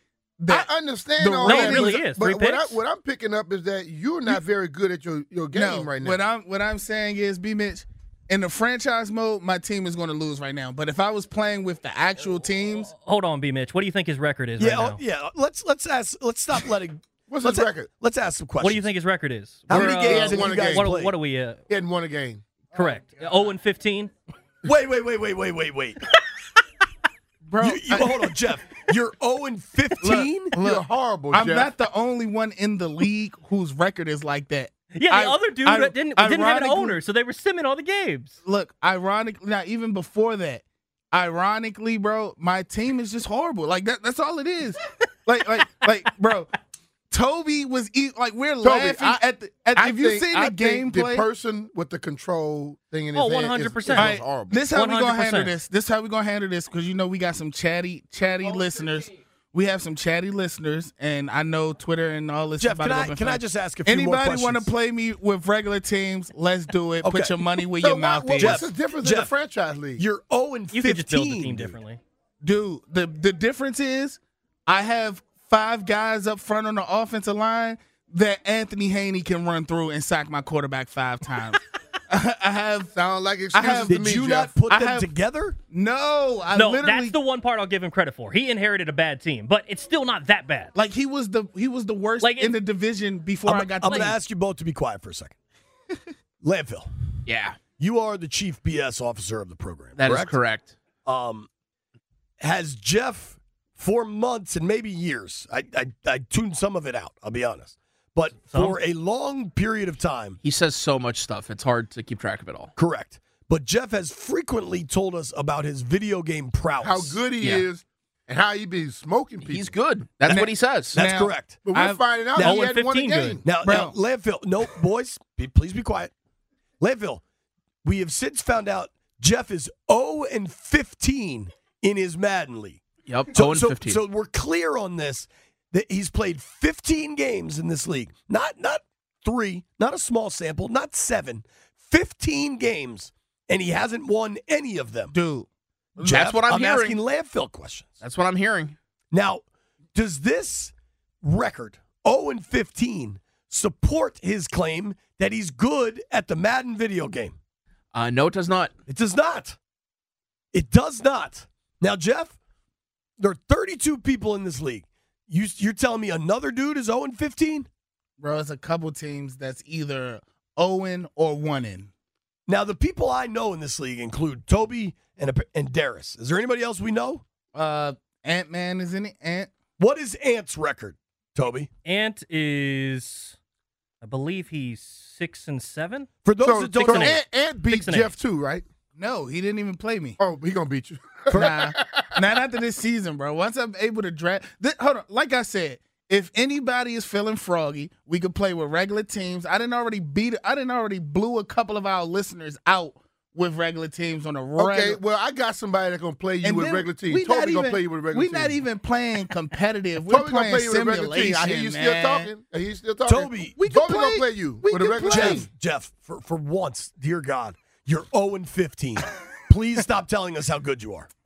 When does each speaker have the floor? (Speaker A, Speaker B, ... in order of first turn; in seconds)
Speaker A: 0.4-2.0, 5.5-12.9, 22.7-23.0, 27.5-28.4, 30.0-37.0, 38.4-46.5, 47.1-51.2, 53.9-68.7, 72.4-82.9, 83.5-84.0, 84.5-85.1, 85.7-87.2, 90.8-94.2, 120.2-122.1, 123.2-124.0, 145.1-146.3, 168.2-171.9, 177.5-179.5, 188.9-190.2, 191.4-205.0, 206.4-212.3, 213.6-215.4
Speaker B: 0.5-6.2, 17.3-17.9, 19.7-20.9, 21.7-22.4, 30.6-31.7, 48.6-49.2, 49.8-54.6, 67.8-70.0, 82.9-84.5, 116.8-119.8, 121.6-123.6, 186.3-188.7, 190.2-192.2, 204.6-208.6, 210.1-215.5
Speaker C: 1.4-2.8, 12.8-15.0, 18.6-21.6, 22.7-24.1, 34.9-38.4, 53.1-54.1, 54.7-55.6, 70.7-72.0, 86.5-90.7, 92.2-92.5, 93.8-94.1, 108.5-108.8, 122.4-123.4, 181.8-183.3, 184.0-186.1, 186.8-188.1
Speaker D: 14.6-18.9, 19.7-21.1, 24.6-26.0, 27.6-30.6, 62.6-64.7, 67.0-67.6, 68.4-69.3, 70.0-71.8, 83.8-85.6, 93.5-95.3, 96.4-96.9, 97.8-100.4, 101.0-101.5, 102.4-110.4, 112.8-117.2, 120.9-121.6, 122.4-122.7, 123.4-126.1, 126.8-127.2, 127.8-145.1, 146.0-147.9, 149.1-149.4, 149.9-157.3, 158.9-159.6, 160.5-162.4, 163.2-167.7, 172.5-177.2, 179.8-181.7, 186.2-187.2, 191.3-191.6, 213.1-213.6, 215.1-221.1
Speaker E: 97.2-97.6, 100.0-100.8, 110.4-112.7, 117.4-117.7, 119.4-121.0, 133.1-134.0, 146.2-147.0, 148.0-148.8, 157.9-158.7